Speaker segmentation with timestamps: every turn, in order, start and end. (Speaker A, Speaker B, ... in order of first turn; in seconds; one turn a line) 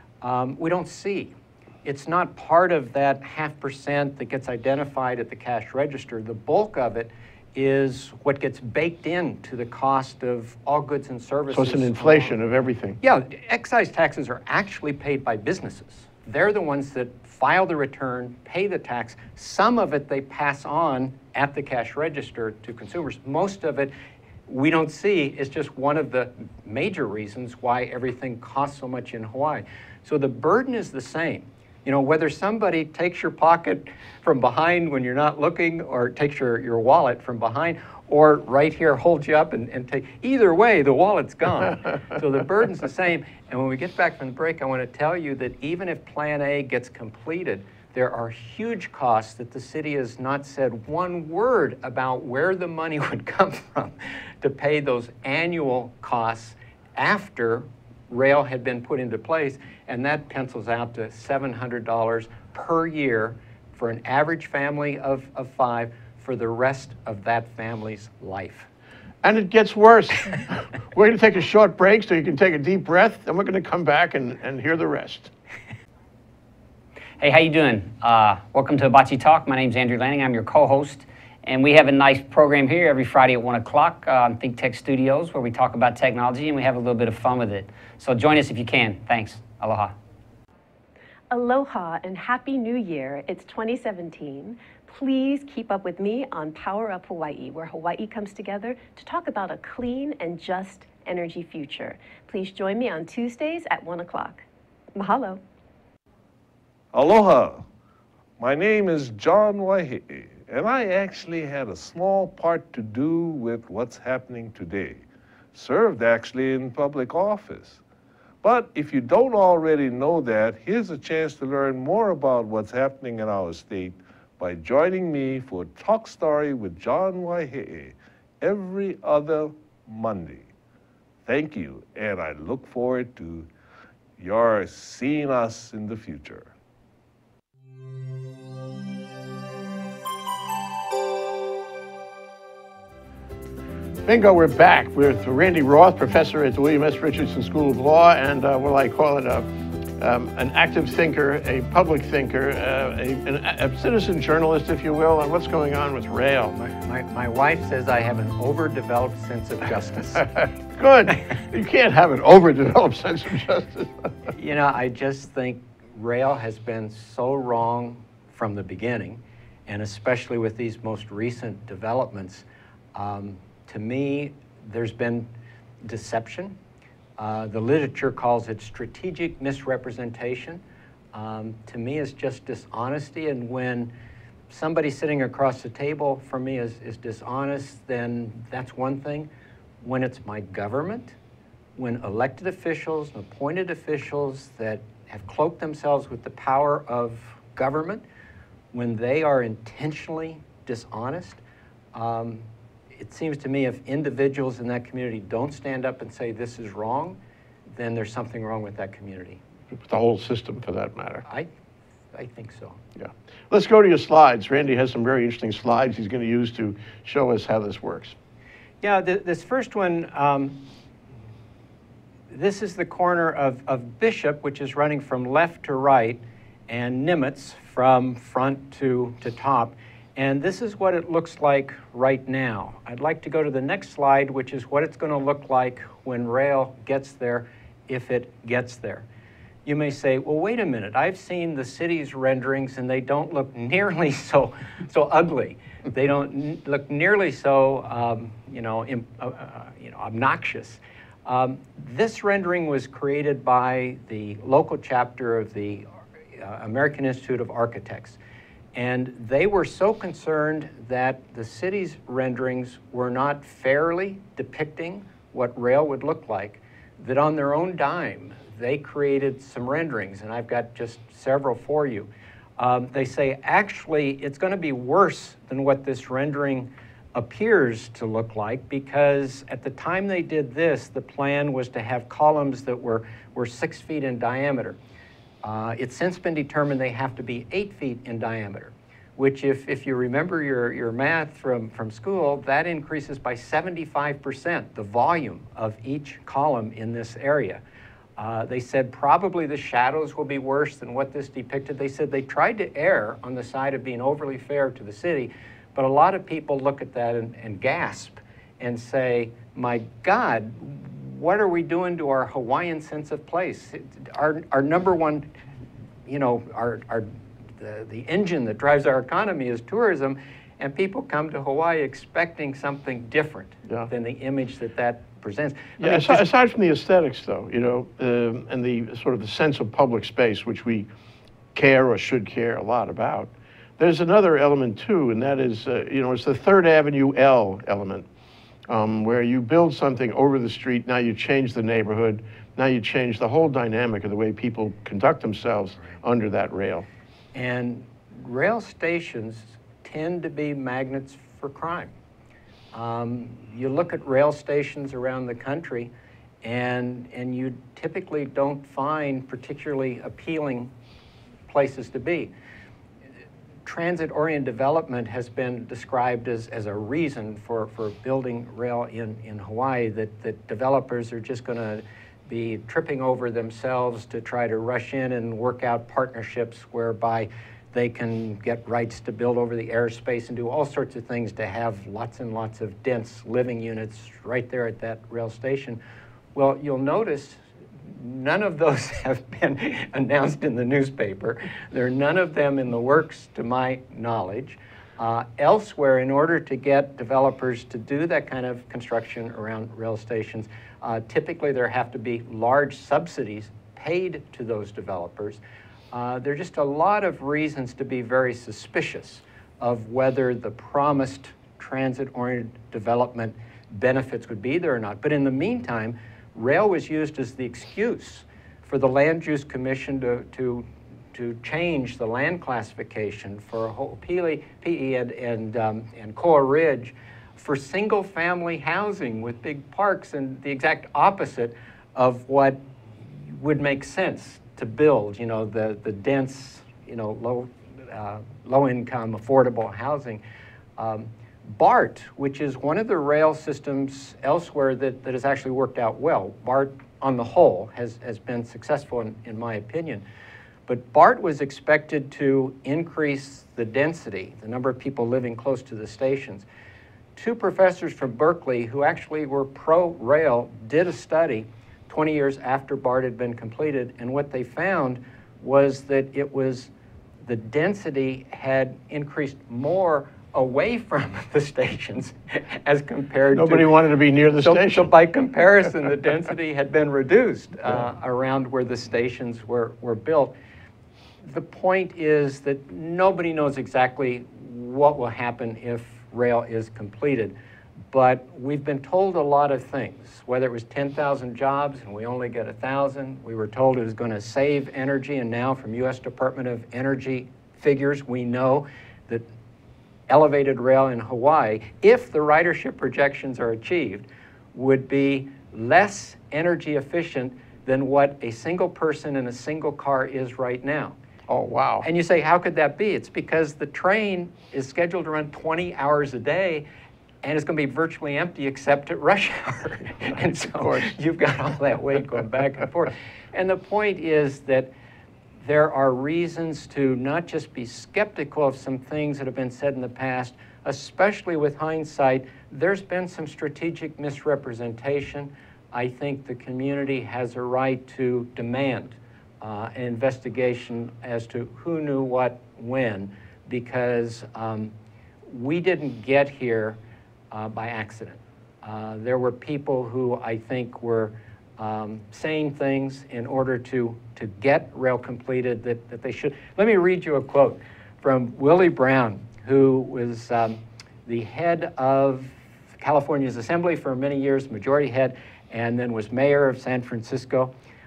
Speaker A: 0.2-12.4
Speaker B: 11.5-13.0
Speaker A: 13.0-23.9
Speaker A: 24.5-68.7
Speaker B: 69.2-75.3
Speaker C: 77.2-89.9
Speaker D: 91.3-104.4
Speaker D: 105.0-105.4
Speaker E: 106.9-107.6
Speaker E: 108.4-117.8
Speaker E: 118.4-130.5
Speaker E: 131.2-133.5
Speaker E: 134.2-136.5
Speaker B: 144.1-156.6
Speaker A: 156.5-160.4
Speaker B: 160.7-163.9
Speaker A: 164.3-175.3
Speaker A: 175.8-176.6
Speaker A: 177.2-180.6
Speaker A: 181.1-183.9
Speaker A: 184.5-189.3
Speaker A: 189.8-191.2
Speaker A: 191.8-198.0
Speaker A: 198.7-201.4
Speaker A: 201.9-207.2
Speaker A: 207.7-209.4
Speaker B: 209.7-211.2
Speaker A: 212.1-212.8
Speaker B: 213.0-218.1
Speaker A: 218.8-220.6
Speaker A: 222.3-239.1
Speaker A: 239.6-258.2
Speaker A: 258.8-284.8
Speaker A: 285.4-297.6
Speaker A: 298.2-315.3
Speaker A: 316.1-326.3
Speaker B: 325.8-330.9
Speaker B: 331.5-338.1
Speaker B: 338.7-346.9
Speaker A: 347.3-351.9
Speaker A: 352.7-355.9
Speaker A: 356.4-360.7
Speaker A: 361.5-362.3
Speaker A: 363.6-385.8
Speaker A: 386.4-405.4
Speaker A: 405.9-440.2
Speaker A: 440.8-450.1
Speaker A: 450.7-456.4
Speaker A: 457.1-466.7
Speaker A: 467.2-473.8
Speaker B: 473.3-474.9
Speaker A: 474.4-480.4
Speaker A: 481.2-487.4
Speaker A: 487.9-499.2
Speaker A: 500.1-510.9
Speaker B: 511.3-511.9
Speaker A: 511.8-516.6
Speaker A: 517.2-524.7
Speaker B: 520.6-520.9
Speaker A: 525.4-544.7
Speaker A: 545.3-546.8
Speaker A: 547.3-567.5